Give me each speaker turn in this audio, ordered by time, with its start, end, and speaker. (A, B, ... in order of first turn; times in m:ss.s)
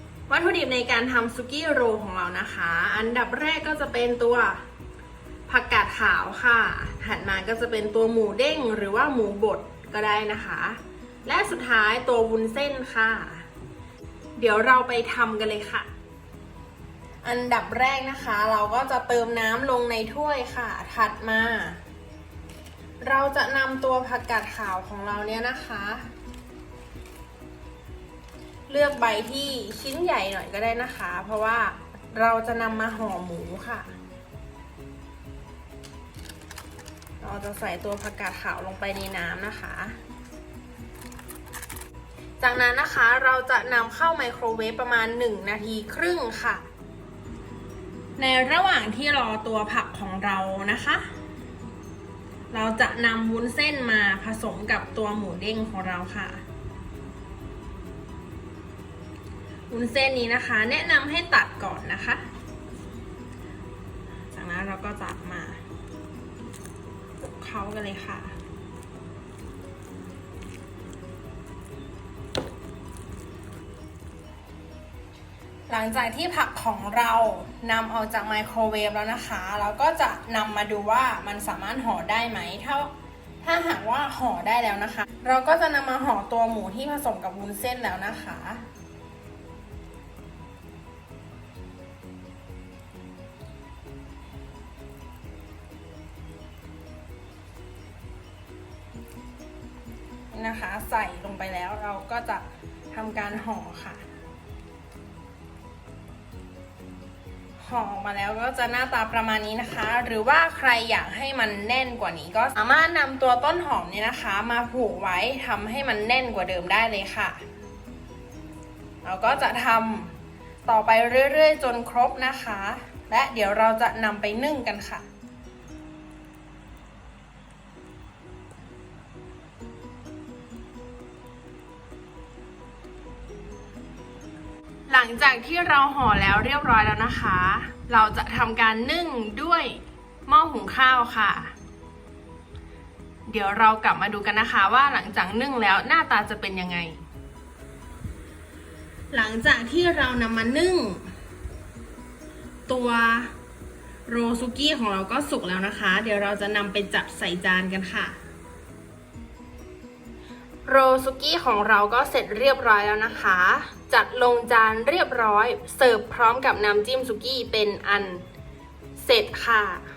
0:00.3-0:04.6 A
0:05.5-0:13.5 A
0:14.4-0:15.9 A
0:17.2-0:21.8 A
0:23.0-0:26.1 A
0:28.7-0:33.9 A
0:37.2-0:40.0 A
0:42.4-0:46.7 A
0:48.2-0:51.1 A
0:52.5-0:56.4 A
0:59.7-1:02.2 A
1:04.3-1:05.6 A
1:07.2-1:08.4 A
1:15.7-1:28.6 A
1:40.3-1:44.0 A
1:47.6-1:57.4 A
1:59.0-2:05.0 A
2:14.9-2:21.5 A
2:23.3-2:27.0 A
2:29.1-2:31.1 A
2:32.7-2:33.3 A
2:34.0-2:38.2 A
2:40.6-2:48.2 A
2:49.0-2:49.8 A